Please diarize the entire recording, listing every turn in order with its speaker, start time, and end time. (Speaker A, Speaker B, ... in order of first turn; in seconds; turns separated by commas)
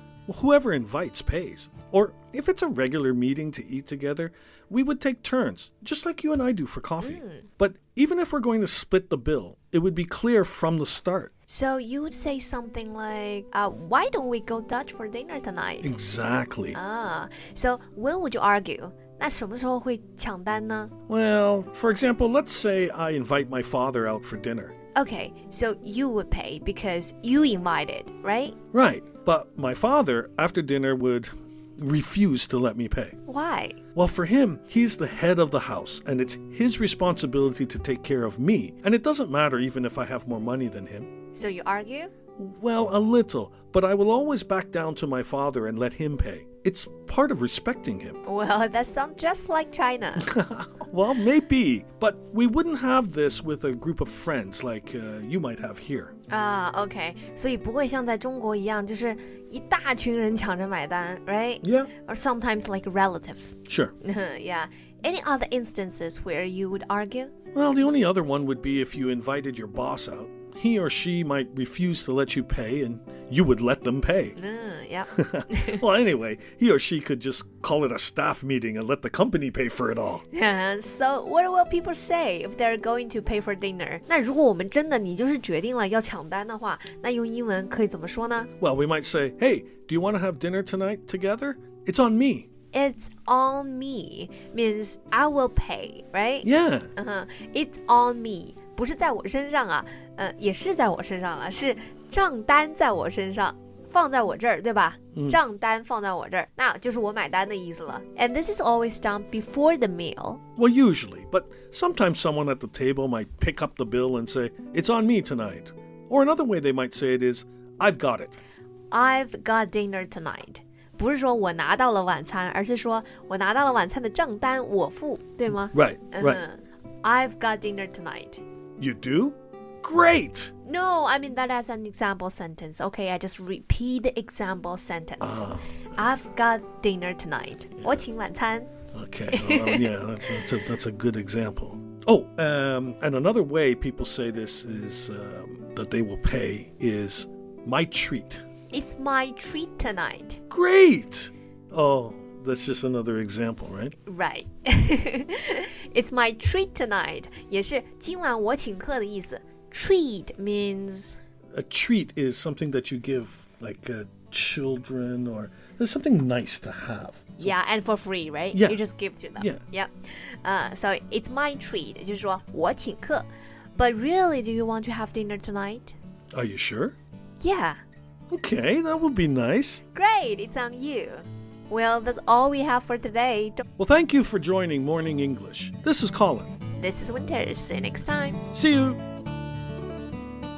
Speaker A: 0.3-11.3, Speaker B: 7.0-7.5, Speaker B: 11.5-16.0, Speaker A: 15.8-16.8, Speaker B: 16.7-20.9, Speaker A: 21.1-24.7, Speaker B: 24.9-28.6, Speaker A: 28.7-33.2, Speaker B: 33.3-33.8, Speaker A: 34.0-41.1, Speaker B: 41.3-42.1, Speaker A: 42.4-48.2, Speaker B: 48.3-50.3, Speaker A: 50.2-56.1, Speaker B: 56.3-67.3, Speaker A: 61.6-61.9, Speaker A: 63.7-63.9, Speaker A: 67.5-74.4, Speaker B: 74.4-75.8, Speaker A: 75.1-80.2, Speaker B: 80.3-88.5, Speaker A: 88.6-92.5, Speaker B: 92.7-110.4, Speaker A: 96.4-96.9, Speaker A: 110.6-118.4, Speaker B: 118.9-128.4, Speaker A: 125.7-126.4, Speaker A: 128.8-130.5, Speaker B: 130.6-138.7, Speaker A: 135.2-135.8, Speaker A: 138.9-148.4, Speaker B: 139.3-140.0, Speaker B: 148.7-150.4, Speaker A: 150.5-153.9, Speaker B: 154.1-161.2, Speaker A: 161.5-167.5, Speaker B: 167.4-176.0, Speaker A: 168.5-168.8, Speaker A: 176.3-177.0, Speaker B: 177.4-177.8, Speaker A: 178.3-179.8, Speaker B: 179.9-183.7, Speaker A: 183.8-186.5, Speaker B: 186.8-188.4, Speaker A: 188.5-189.0